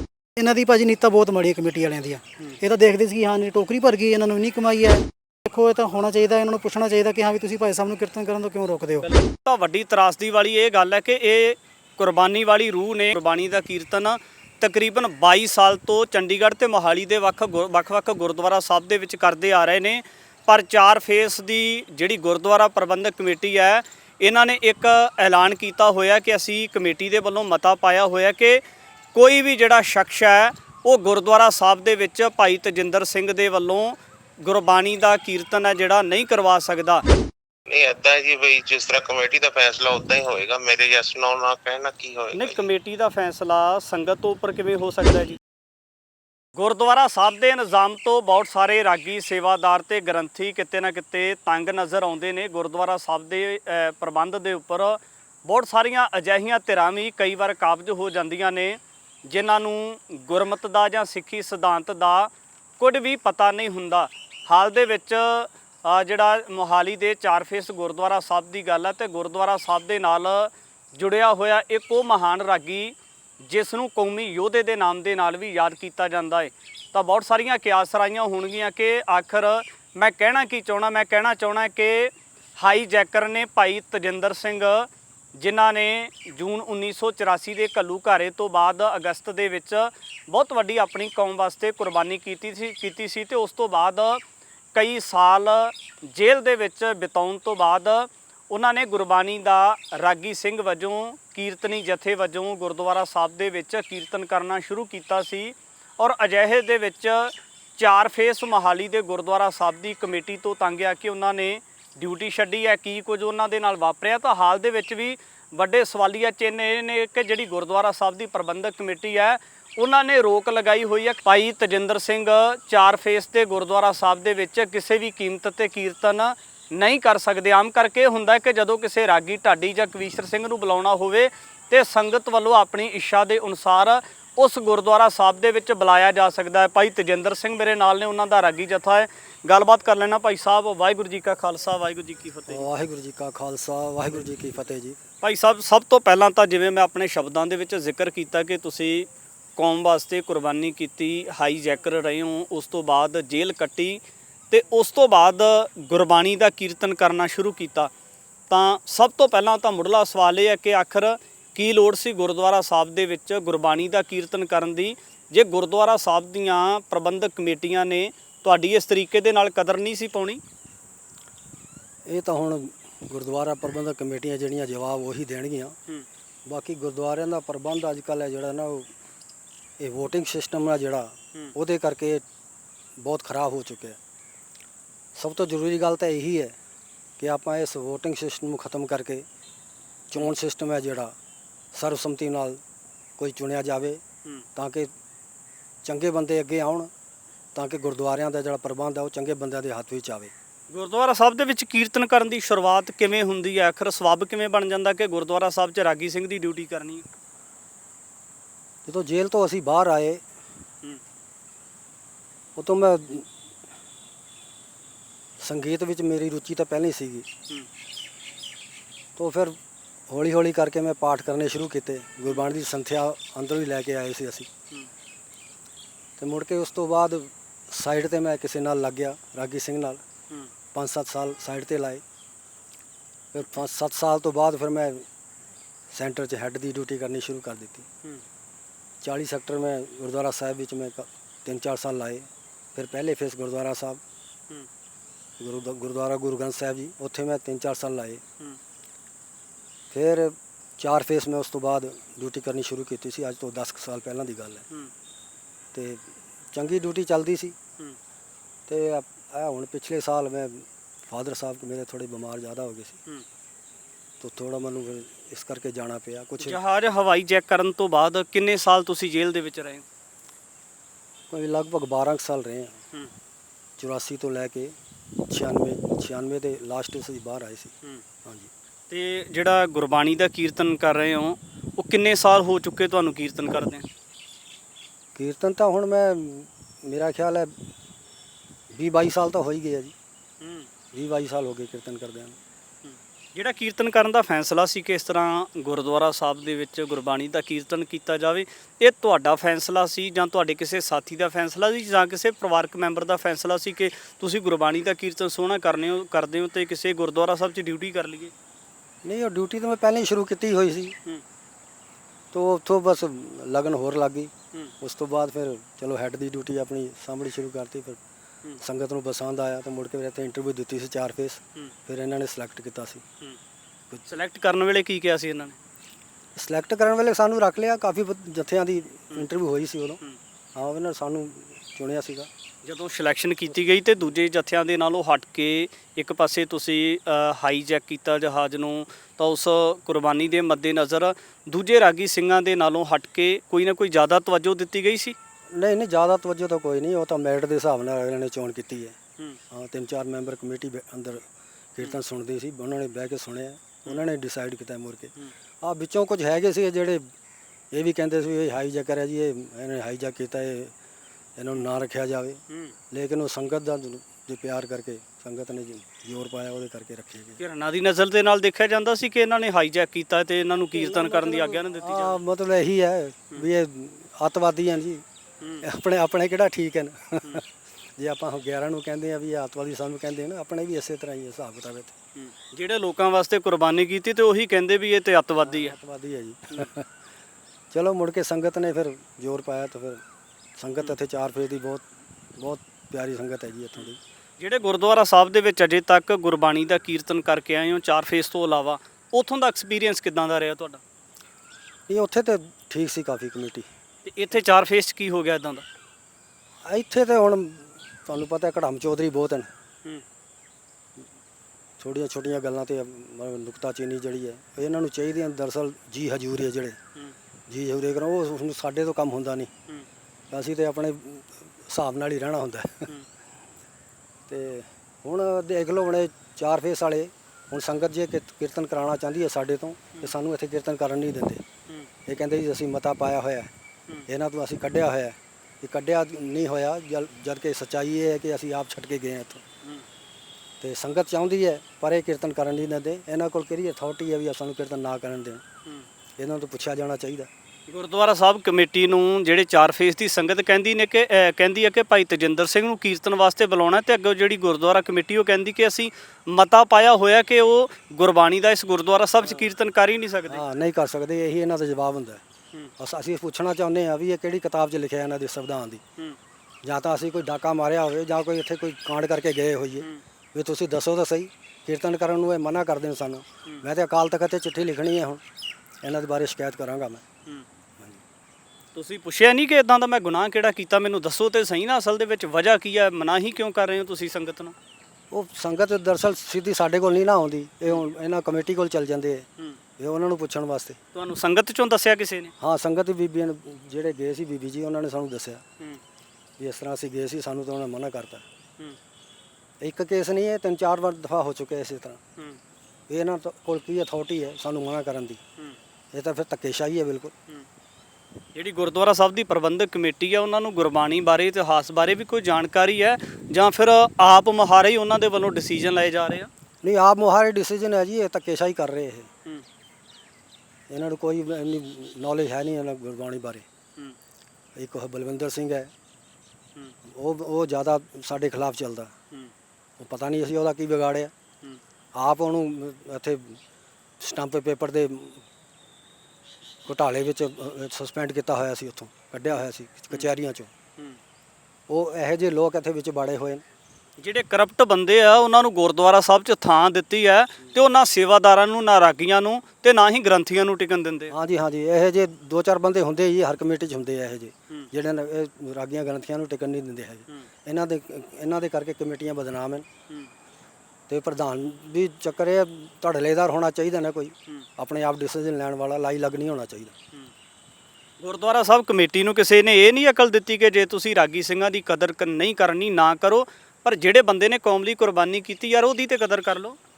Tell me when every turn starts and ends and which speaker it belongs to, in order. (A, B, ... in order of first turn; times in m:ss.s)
0:00.4-0:09.1 A
0:09.0-0:28.6 B
0:29.1-0:37.0 B
0:37.7-0:42.7 C
0:42.3-0:45.4 B
0:46.6-1:34.2 B
1:34.7-2:22.7 B
2:22.5-2:25.0 D
2:25.2-2:34.0 B
2:34.5-2:37.9 B
2:38.5-2:50.4 B
2:52.1-2:55.8 D
2:56.5-2:58.9 D
2:59.8-3:02.2 D
3:03.0-3:04.0 D
3:05.2-3:06.6 D
3:07.2-3:09.2 D
3:10.1-3:11.1 D
3:11.7-3:12.6 D
3:13.2-3:14.0 D
3:14.6-3:14.9 D
3:15.8-3:16.9 D
3:17.5-3:20.3 D
3:20.7-3:27.0 B
3:28.8-3:30.2 D
3:32.6-3:33.3 D
3:35.4-3:37.3 D
3:39.2-3:39.6 D
3:40.1-3:44.5 D
3:46.2-3:50.0 D
3:50.7-3:52.0 D
3:53.3-3:55.0 D
3:55.9-3:57.8 D
3:59.0-4:04.0 D
4:05.4-4:08.2 D
4:09.9-4:14.6 D
4:15.7-4:17.5 D
4:18.7-4:23.0 D
4:24.2-4:26.6 D
4:26.4-4:29.8 B
4:31.3-4:32.8 D
4:33.8-4:34.8 D
4:35.3-4:37.7 D
4:38.2-4:38.5 D
4:38.9-4:43.9 B
4:45.1-4:47.6 D
4:48.7-4:49.9 D
4:50.4-4:50.7 B
4:50.9-4:52.4 D
4:52.8-5:08.3 B
5:09.0-5:11.0 D
5:12.3-5:18.0 D
5:18.6-5:23.0 D
5:24.1-5:25.6 B
5:26.4-5:30.0 D
5:30.5-5:32.3 D
5:32.6-5:45.2 B
5:45.5-5:49.0 D
5:49.5-5:51.2 D
5:51.8-5:57.1 D
5:57.7-6:00.7 D
6:01.4-6:07.4 D
6:07.4-6:12.2 B
6:10.7-6:15.0 D
6:15.6-6:17.4 D
6:18.0-6:22.0 D
6:22.2-6:25.7 B
6:25.4-6:26.9 D
6:27.7-6:30.0 D
6:30.6-6:34.0 D
6:34.4-6:40.8 B
6:41.9-6:43.7 D
6:44.0-6:45.6 B
6:46.6-6:49.5 D
6:51.8-6:56.8 D
6:57.5-6:59.5 D
7:00.3-7:02.9 D
7:04.3-7:11.4 D
7:12.0-7:13.5 D
7:14.1-7:19.4 D
7:20.6-7:25.4 D
7:26.2-7:27.3 D
7:27.7-7:40.4 B
7:40.3-7:42.2 D
7:42.8-7:45.8 D
7:46.6-7:55.2 D
7:55.8-7:57.0 D
7:58.7-8:04.5 B
8:05.1-8:09.3 D
8:09.8-8:10.8 D
8:10.9-8:12.3 B
8:12.4-8:15.4 D
8:16.4-8:18.2 D
8:19.6-8:22.0 D
8:22.9-8:25.2 D
8:25.9-8:27.1 D
8:28.3-8:36.3 B
8:36.6-8:39.1 D
8:40.7-8:43.4 D
8:44.6-8:45.7 D
8:46.8-8:48.9 D
8:49.8-8:51.1 D
8:51.9-8:53.4 D
8:54.0-8:55.2 D
8:56.6-9:00.5 D
8:59.3-9:00.1 B
9:01.7-9:03.4 D
9:04.0-9:11.1 B
9:11.1-9:19.6 D
9:20.9-9:26.7 D
9:28.0-9:36.6 B